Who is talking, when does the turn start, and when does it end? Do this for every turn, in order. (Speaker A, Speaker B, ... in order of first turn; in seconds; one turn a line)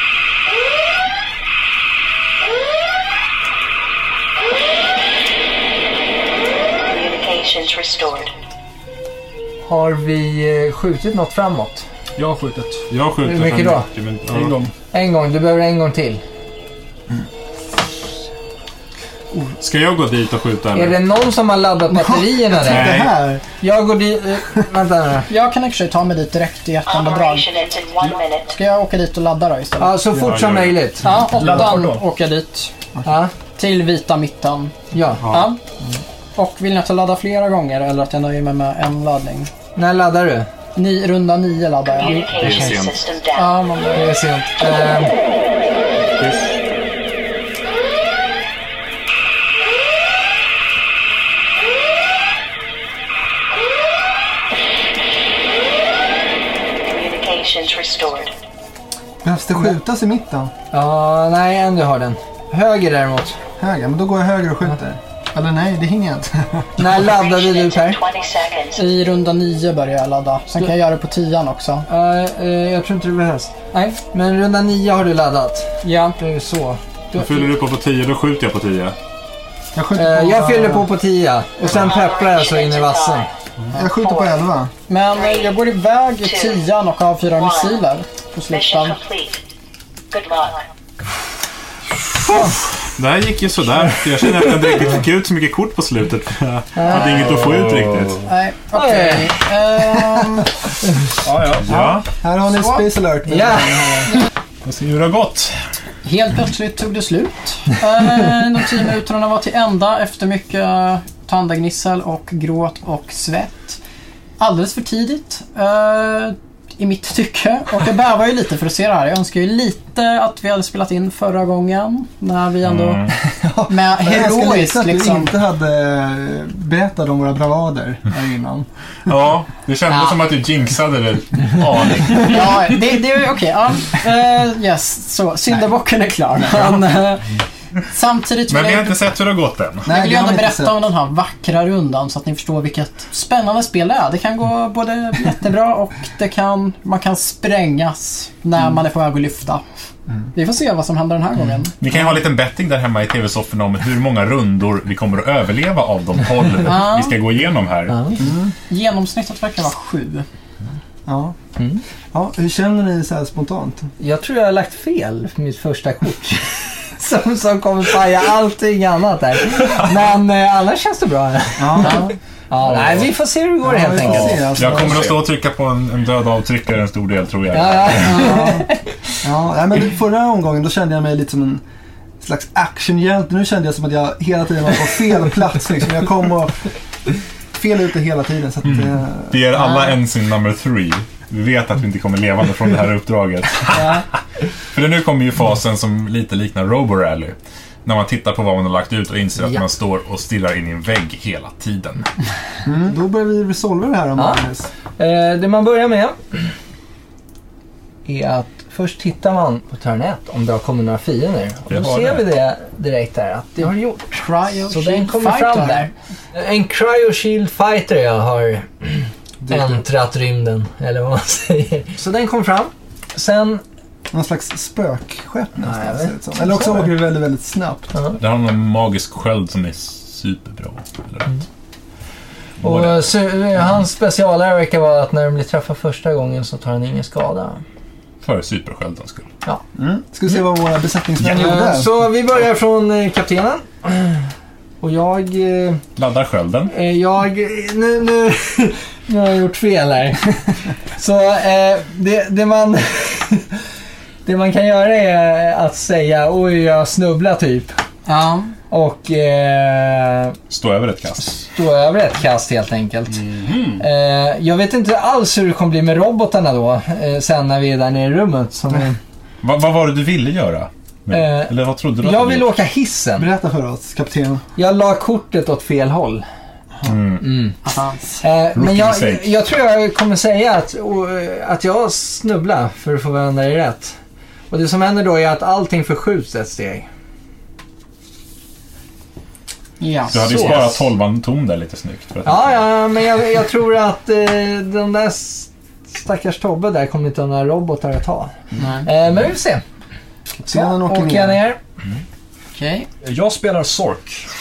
Speaker A: 6.8-8.3
Speaker B: 9.7-11.9
Speaker C: 12.2-12.9
Speaker D: 12.9-14.6
Speaker B: 13.2-13.9
Speaker C: 14.3-14.7
Speaker B: 14.9-16.2
Speaker D: 19.5-21.0
Speaker B: 20.7-23.0
Speaker E: 21.9-23.4
Speaker D: 22.6-23.1
Speaker B: 23.6-25.3
Speaker F: 25.3-27.5
Speaker A: 26.9-28.6
Speaker F: 28.5-30.0
Speaker B: 29.8-31.2
Speaker D: 30.1-30.9
Speaker F: 31.0-32.7
Speaker C: 31.1-32.1
Speaker B: 33.0-33.3
Speaker F: 33.6-35.6
Speaker B: 34.9-35.3
Speaker D: 35.2-35.5
Speaker F: 36.4-39.5
Speaker B: 39.8-40.5
Speaker F: 40.8-42.3
Speaker A: 42.0-43.6
Speaker D: 42.3-43.0
Speaker F: 43.4-44.2
Speaker B: 44.0-45.1
Speaker D: 46.1-46.6
Speaker A: 56.8-58.3
Speaker E: 59.2-60.5
Speaker B: 60.7-63.4
Speaker E: 63.6-66.7
Speaker B: 66.8-68.0
Speaker A: 67.0-69.0
Speaker F: 68.8-71.9
Speaker B: 71.9-77.4
Speaker F: 73.7-74.0
Speaker F: 75.8-76.2
Speaker D: 77.1-79.0
Speaker E: 79.7-80.9
Speaker B: 79.9-83.3
Speaker A: 81.7-83.3
Speaker E: 83.7-84.7
Speaker A: 83.9-84.4
Speaker F: 84.9-89.0
Speaker A: 85.1-85.6
Speaker A: 86.2-86.6
Speaker A: 87.3-87.8
Speaker A: 88.5-89.5
Speaker A: 90.1-90.7
Speaker D: 93.0-98.2
Speaker B: 96.8-97.3
Speaker C: 97.3-97.9
Speaker F: 98.2-100.5
Speaker B: 98.7-99.4
Speaker C: 101.2-101.8
Speaker D: 101.6-102.1
Speaker E: 101.7-104.1
Speaker F: 102.5-102.9
Speaker B: 103.3-104.2
Speaker D: 104.6-105.6
Speaker F: 106.0-113.8
Speaker F: 114.4-123.1
Speaker D: 122.7-123.2
Speaker E: 123.3-128.7
Speaker F: 123.7-125.3
Speaker D: 129.1-132.7
Speaker F: 129.9-130.2
Speaker F: 132.2-137.3
Speaker F: 137.9-139.0
Speaker D: 138.5-139.9
Speaker E: 139.8-140.8
Speaker F: 139.9-149.6
Speaker F: 150.3-151.8
Speaker D: 151.8-158.2
Speaker F: 156.6-157.2
Speaker B: 157.9-158.2
Speaker E: 158.2-158.5
Speaker F: 158.7-160.3
Speaker E: 161.1-161.4
Speaker E: 162.1-163.9
Speaker B: 164.0-174.8
Speaker E: 171.6-172.1
Speaker F: 171.8-172.1
Speaker E: 173.6-175.3
Speaker D: 174.0-178.3
Speaker B: 177.5-178.9
Speaker E: 178.1-178.7
Speaker E: 179.2-181.6
Speaker E: 182.2-186.7
Speaker E: 187.5-189.5
Speaker D: 188.7-194.0
Speaker D: 194.7-202.1
Speaker E: 202.7-204.7
Speaker B: 204.2-204.4
Speaker B: 205.0-206.5
Speaker B: 208.1-223.6
Speaker D: 211.7-212.2
Speaker F: 214.2-215.9
Speaker E: 219.4-219.8
Speaker E: 224.1-228.0
Speaker B: 225.6-227.0
Speaker D: 228.1-231.4
Speaker D: 232.6-233.0
Speaker B: 232.6-237.6
Speaker D: 238.2-239.3
Speaker E: 239.8-241.9
Speaker D: 241.2-241.6
Speaker B: 241.3-244.3
Speaker B: 244.8-245.8
Speaker D: 246.0-246.7
Speaker B: 246.7-253.6
Speaker B: 254.2-257.8
Speaker F: 258.1-258.6
Speaker B: 258.7-260.4
Speaker D: 260.5-261.3
Speaker B: 261.2-269.0
Speaker C: 263.2-263.8
Speaker D: 269.4-272.6
Speaker B: 271.1-273.3
Speaker E: 273.2-274.4
Speaker B: 274.6-276.3
Speaker D: 276.9-277.4
Speaker B: 277.2-277.6
Speaker F: 277.6-278.2
Speaker B: 278.2-284.0
Speaker D: 278.6-279.3
Speaker B: 284.5-286.9
Speaker F: 289.8-290.8
Speaker D: 290.1-292.7
Speaker B: 292.2-299.6
Speaker F: 298.6-298.9
Speaker E: 300.4-301.4
Speaker F: 300.5-300.8
Speaker B: 300.8-301.6
Speaker F: 302.5-302.9
Speaker C: 303.0-304.3